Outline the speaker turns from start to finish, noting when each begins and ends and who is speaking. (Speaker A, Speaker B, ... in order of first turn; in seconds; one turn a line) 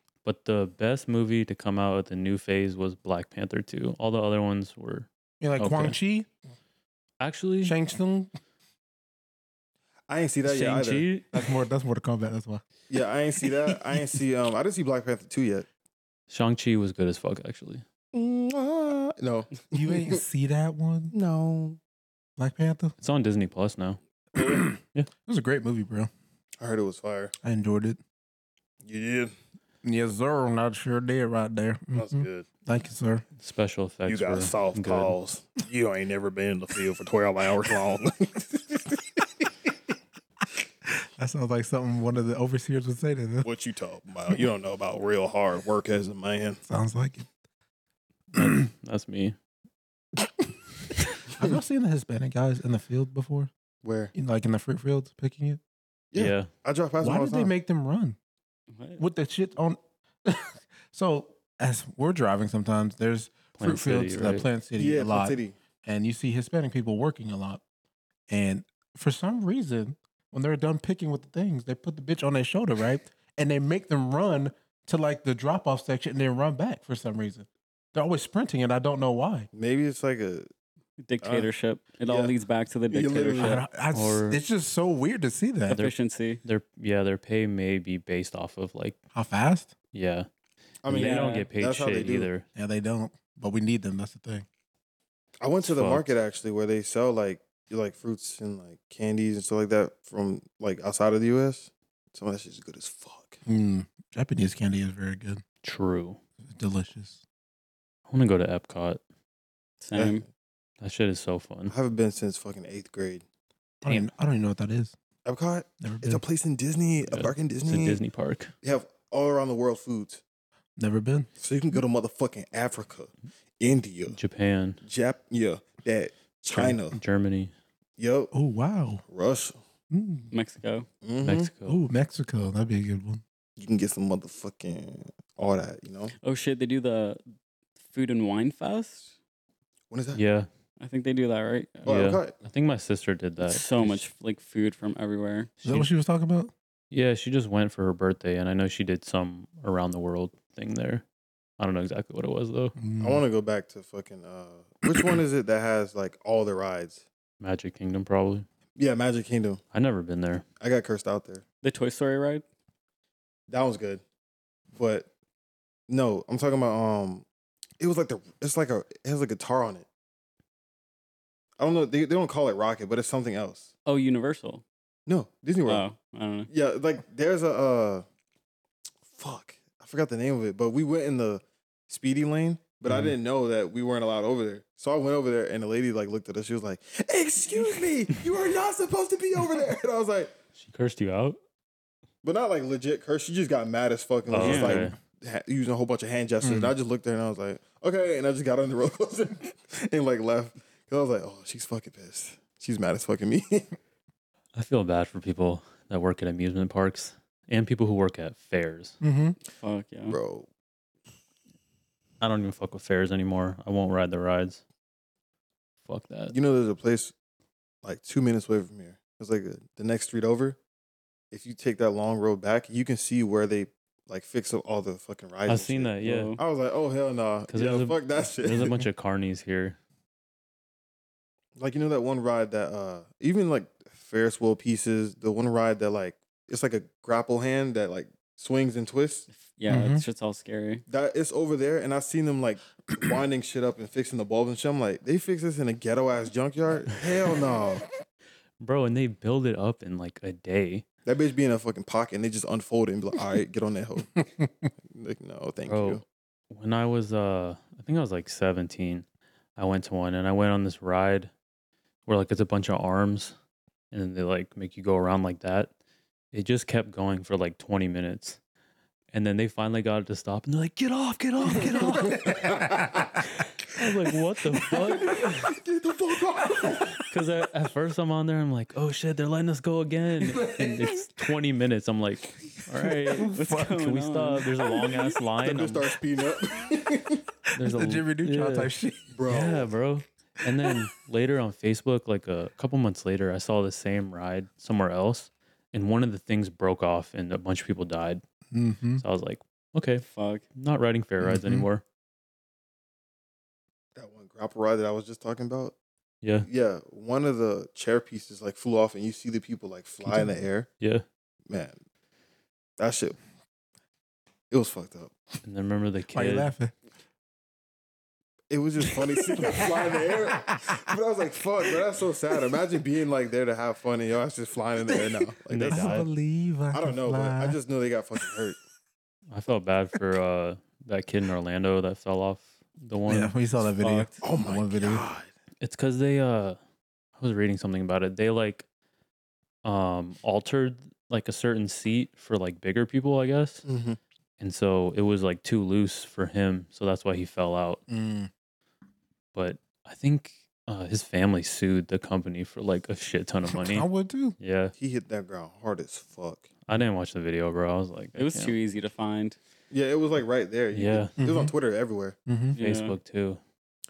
Speaker A: 0.2-6.0
Speaker B: 5.4-6.3
Speaker A: 7.2-7.8
Speaker B: 7.6-8.3
Speaker C: 10.1-11.1
Speaker A: 10.4-11.3
Speaker B: 11.3-12.6
Speaker C: 12.9-15.7
Speaker A: 16.3-17.8
Speaker C: 18.1-20.2
Speaker B: 19.7-21.1
Speaker C: 21.1-21.8
Speaker B: 22.4-22.9
Speaker A: 23.0-24.0
Speaker C: 24.4-24.6
Speaker B: 24.4-26.1
Speaker C: 26.6-27.3
Speaker B: 27.4-28.0
Speaker C: 28.8-29.3
Speaker B: 29.8-33.2
Speaker C: 31.9-32.5
Speaker A: 33.4-35.1
Speaker C: 34.1-39.2
Speaker B: 40.9-43.5
Speaker C: 43.4-46.6
Speaker B: 46.6-47.3
Speaker A: 48.3-49.4
Speaker B: 51.4-53.5
Speaker C: 53.8-54.1
Speaker B: 54.1-55.6
Speaker C: 56.1-57.5
Speaker A: 56.1-56.5
Speaker B: 57.0-58.1
Speaker D: 58.7-59.0
Speaker B: 59.0-67.6
Speaker A: 63.6-64.5
Speaker C: 64.8-65.5
Speaker B: 68.3-79.5
Speaker C: 79.5-80.5
Speaker D: 81.0-83.6
Speaker C: 81.2-81.5
Speaker C: 82.0-82.3
Speaker C: 82.9-83.6
Speaker B: 83.4-85.8
Speaker A: 83.9-84.4
Speaker D: 85.7-86.4
Speaker A: 85.7-89.0
Speaker B: 89.1-89.7
Speaker A: 89.9-90.3
Speaker C: 90.8-92.3
Speaker A: 90.8-92.4
Speaker D: 90.9-91.5
Speaker B: 92.5-94.5
Speaker C: 95.4-103.4
Speaker A: 95.6-96.1
Speaker B: 103.5-105.4
Speaker A: 105.6-106.2
Speaker B: 106.4-107.2
Speaker A: 108.1-109.0
Speaker D: 109.8-110.2
Speaker C: 109.9-110.3
Speaker A: 110.8-111.7
Speaker C: 111.7-113.2
Speaker B: 113.8-114.9
Speaker C: 115.2-118.0
Speaker B: 115.8-116.2
Speaker A: 117.0-118.5
Speaker C: 118.6-120.2
Speaker B: 120.8-121.3
Speaker C: 121.4-124.2
Speaker A: 124.1-124.8
Speaker C: 124.8-127.0
Speaker A: 126.5-127.5
Speaker C: 128.0-128.3
Speaker B: 128.3-129.0
Speaker C: 129.1-129.6
Speaker B: 129.9-130.3
Speaker D: 130.3-130.9
Speaker C: 131.0-131.5
Speaker A: 131.2-131.8
Speaker B: 131.7-133.2
Speaker C: 133.6-136.1
Speaker D: 136.2-137.2
Speaker D: 137.8-139.1
Speaker C: 139.9-140.2
Speaker A: 140.1-140.5
Speaker D: 140.8-141.9
Speaker C: 141.8-142.3
Speaker A: 141.8-144.0
Speaker D: 143.4-145.5
Speaker A: 145.6-145.9
Speaker B: 145.6-146.5
Speaker A: 146.9-151.0
Speaker A: 151.6-152.7
Speaker B: 152.8-153.2
Speaker C: 153.0-157.0
Speaker A: 157.4-158.4
Speaker C: 158.8-159.6
Speaker A: 159.7-160.4
Speaker C: 160.6-161.4
Speaker D: 161.6-162.4
Speaker C: 163.5-164.0
Speaker C: 164.7-165.1
Speaker C: 165.9-167.2
Speaker C: 167.8-169.8
Speaker C: 171.6-173.7
Speaker D: 173.8-174.6
Speaker C: 175.1-175.8
Speaker D: 175.7-176.5
Speaker C: 176.5-178.1
Speaker C: 179.1-190.3
Speaker A: 190.6-191.4
Speaker C: 192.2-203.7
Speaker A: 194.3-194.9
Speaker D: 194.3-194.9
Speaker B: 196.4-196.7
Speaker A: 204.5-209.0
Speaker B: 209.0-209.4
Speaker D: 209.5-210.2
Speaker C: 210.1-210.5
Speaker A: 212.2-214.6
Speaker A: 215.8-216.3
Speaker C: 216.3-217.1
Speaker C: 217.8-220.6
Speaker C: 221.3-228.8
Speaker A: 225.4-226.3
Speaker D: 226.0-226.4
Speaker A: 227.5-229.8
Speaker C: 231.6-239.3
Speaker D: 239.3-240.8
Speaker B: 239.7-240.0
Speaker C: 240.9-247.9
Speaker A: 248.6-250.8
Speaker C: 251.1-254.2
Speaker B: 254.2-254.5
Speaker C: 254.9-256.0
Speaker A: 255.7-259.0
Speaker A: 259.6-261.3
Speaker A: 262.1-263.3
Speaker A: 263.9-265.7
Speaker A: 266.3-268.4
Speaker A: 269.1-272.5
Speaker C: 271.9-272.8
Speaker B: 272.1-273.0
Speaker A: 273.7-275.6
Speaker C: 274.7-277.0
Speaker B: 276.6-276.9
Speaker A: 276.9-285.9
Speaker B: 280.2-280.9
Speaker B: 283.1-283.7
Speaker D: 283.3-284.6
Speaker C: 285.4-287.2
Speaker B: 287.5-289.1
Speaker A: 287.5-288.7
Speaker C: 289.1-289.7
Speaker A: 289.2-298.2
Speaker B: 298.5-299.0
Speaker A: 299.0-300.0
Speaker D: 300.0-300.4
Speaker A: 300.5-301.8
Speaker B: 301.2-301.7
Speaker C: 303.9-305.7
Speaker A: 306.2-306.5
Speaker C: 306.4-310.7
Speaker C: 311.5-311.8
Speaker C: 312.8-313.2
Speaker C: 314.5-315.1
Speaker A: 315.4-316.5
Speaker B: 316.1-316.7
Speaker C: 318.5-326.0
Speaker B: 319.4-320.8
Speaker A: 325.5-326.1
Speaker B: 325.6-327.6
Speaker C: 326.7-328.6
Speaker A: 329.3-333.3
Speaker B: 333.1-335.1
Speaker D: 333.8-334.2
Speaker C: 334.2-335.3
Speaker A: 335.6-336.6
Speaker A: 337.2-338.6
Speaker A: 339.6-343.6
Speaker C: 343.6-344.0
Speaker A: 344.4-347.8
Speaker B: 347.9-348.3
Speaker A: 349.3-353.9
Speaker B: 353.5-354.4
Speaker A: 354.4-354.7
Speaker C: 354.8-356.5
Speaker A: 356.7-358.6
Speaker D: 358.1-359.4
Speaker C: 359.7-362.1
Speaker A: 360.7-361.1
Speaker B: 361.2-361.5
Speaker B: 362.3-362.6
Speaker A: 362.5-363.4
Speaker D: 362.5-363.0